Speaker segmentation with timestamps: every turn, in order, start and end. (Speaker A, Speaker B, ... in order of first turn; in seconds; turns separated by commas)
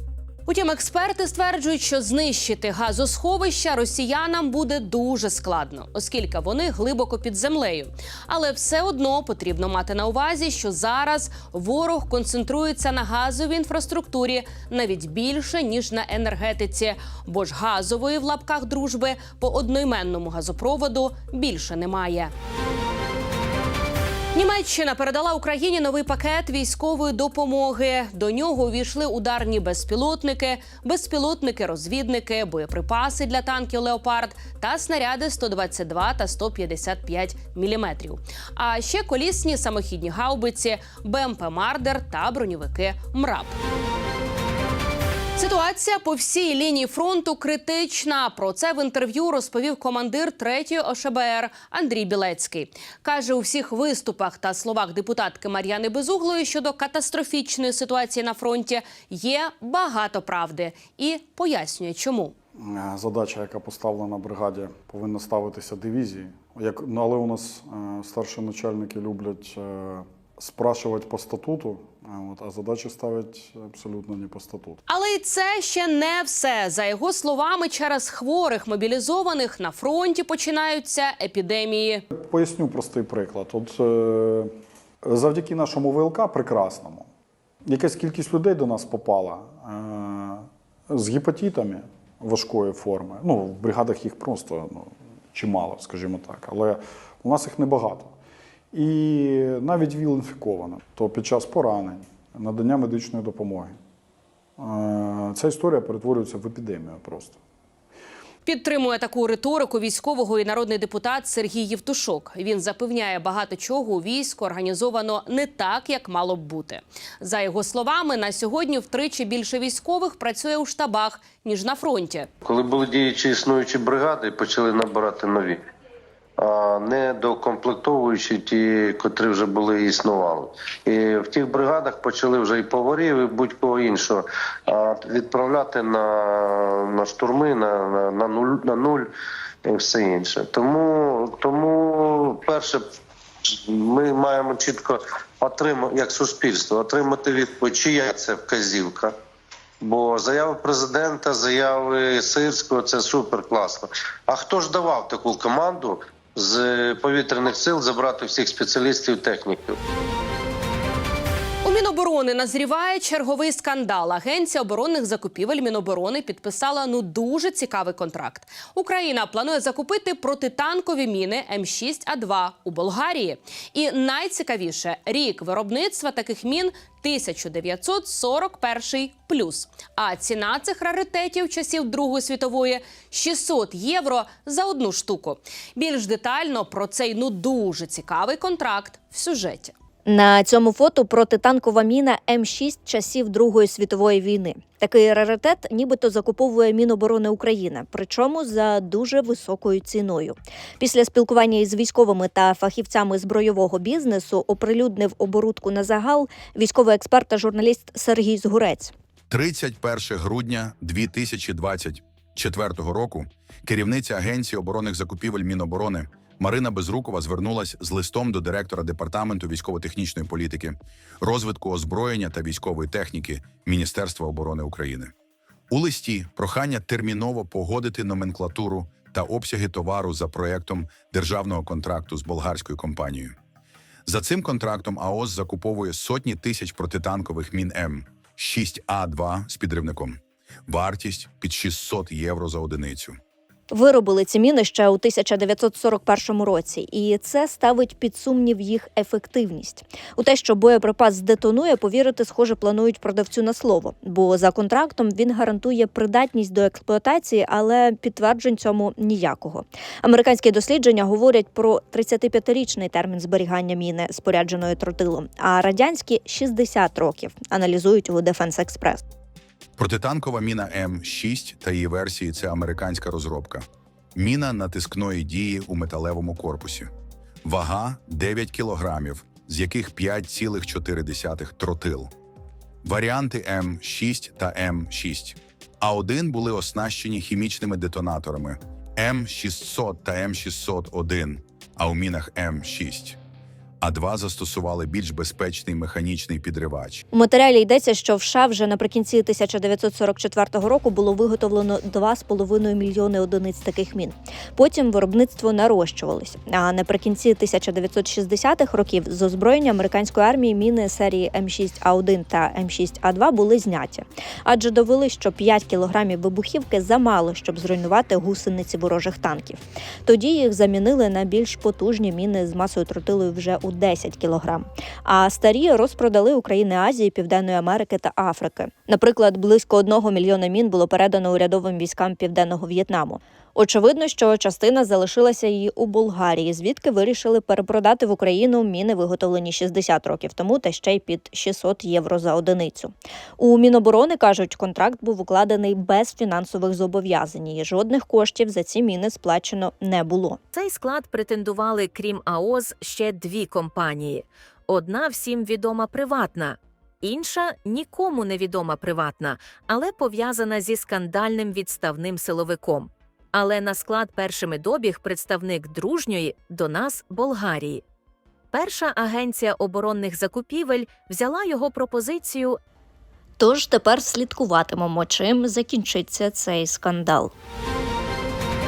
Speaker A: 0.5-22.3, Speaker A: 24.3-43.6, Speaker A: 45.4-62.3, Speaker B: 62.6-74.8, Speaker A: 74.9-82.0, Speaker B: 82.1-84.5, Speaker B: 85.0-87.1, Speaker B: 87.7-98.1, Speaker B: 98.7-103.8, Speaker B: 104.6-107.4, Speaker A: 108.4-122.3, Speaker C: 122.4-125.6, Speaker C: 126.4-139.1, Speaker C: 139.6-142.8, Speaker C: 143.5-149.1, Speaker C: 149.8-159.8, Speaker A: 161.6-189.7, Speaker D: 190.1-208.9, Speaker E: 209.3-225.1, Speaker E: 225.7-233.3, Speaker E: 234.1-243.2, Speaker D: 243.7-269.0, Speaker E: 269.8-276.9, Speaker E: 277.4-282.1, Speaker E: 282.8-293.2, Speaker E: 293.8-297.0, Speaker D: 297.1-350.4, Speaker F: 350.5-367.8, Speaker F: 368.5-372.6, Speaker D: 373.4-377.3